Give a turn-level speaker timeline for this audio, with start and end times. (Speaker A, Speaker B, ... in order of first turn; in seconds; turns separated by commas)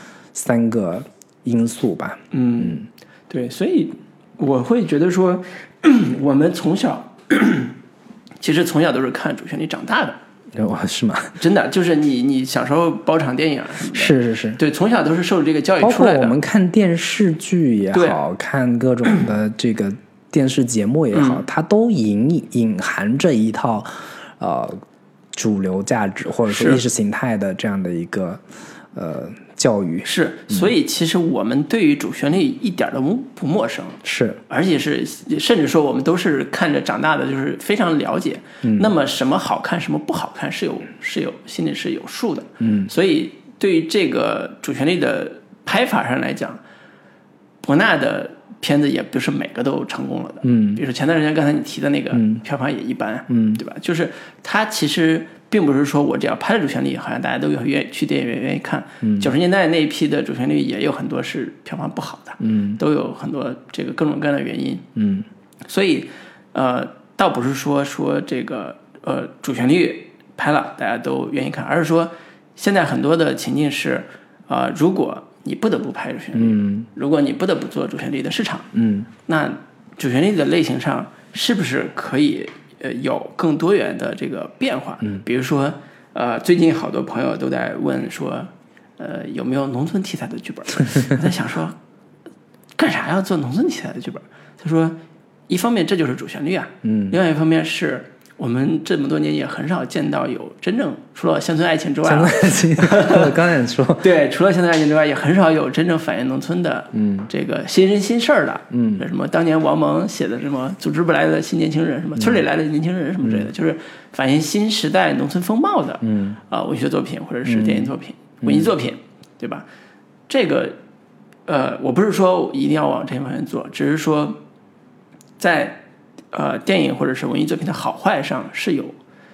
Speaker A: 0.3-2.9, Speaker B: 2.3-7.8, Speaker B: 8.4-10.2, Speaker A: 10.5-11.4, Speaker B: 11.4-16.4, Speaker A: 13.9-14.6, Speaker A: 15.8-24.8, Speaker B: 17.9-18.2, Speaker B: 21.1-21.4, Speaker A: 25.3-28.4, Speaker B: 26.5-26.8, Speaker A: 28.9-30.7, Speaker B: 30.1-46.6, Speaker A: 34.0-34.4, Speaker A: 38.6-38.9, Speaker A: 42.6-42.9, Speaker B: 47.6-64.9, Speaker A: 50.4-50.8, Speaker A: 52.1-52.4, Speaker A: 53.3-53.6, Speaker A: 59.0-59.3, Speaker A: 62.4-62.8, Speaker A: 65.0-65.3, Speaker B: 65.7-78.7, Speaker A: 76.3-76.9, Speaker A: 78.7-79.1, Speaker B: 79.3-91.8, Speaker B: 92.8-95.0, Speaker B: 95.5-103.3, Speaker A: 96.8-97.2, Speaker A: 102.0-104.1, Speaker B: 104.0-119.7, Speaker A: 106.9-107.3, Speaker A: 108.7-109.0, Speaker A: 112.2-112.4, Speaker A: 113.2-113.5, Speaker A: 116.0-116.4, Speaker A: 117.5-118.7, Speaker B: 120.3-120.8, Speaker B: 121.5-124.4, Speaker B: 125.4-125.8, Speaker B: 126.3-129.0